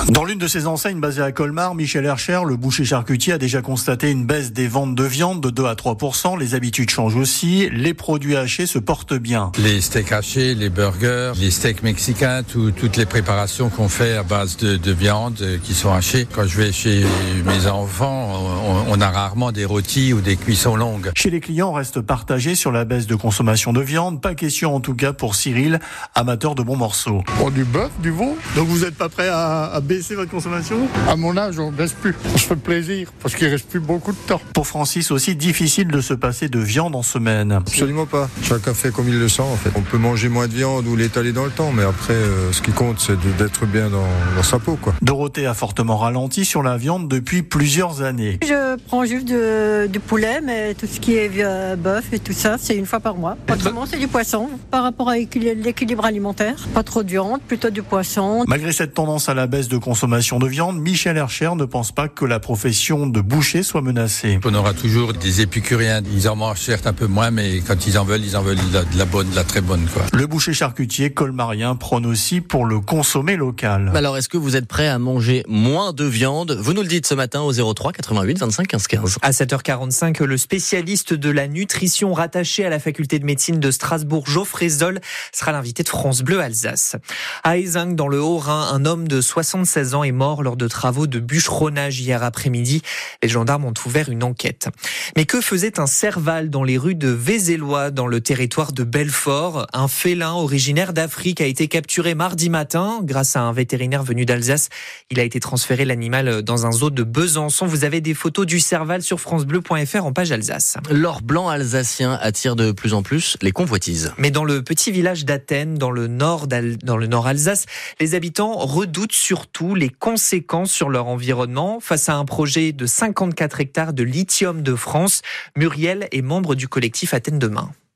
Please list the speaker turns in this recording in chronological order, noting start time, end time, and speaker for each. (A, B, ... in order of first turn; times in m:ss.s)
0:00.1-0:09.5 A
0:09.6-0:21.1 B
0:21.2-0:27.2 A
0:27.4-0:28.5 C
0:28.5-0:30.9 A
0:31.1-0:34.4 C
0:34.5-0:37.7 A
0:37.7-0:44.9 D
0:45.0-0:48.4 A
0:48.4-0:58.5 E
0:58.5-1:04.4 A
1:04.4-1:10.1 B
1:10.1-1:14.0 A
1:13.9-1:19.2 F
1:19.2-1:50.8 G
1:50.9-1:54.2 F
1:54.2-2:07.7 G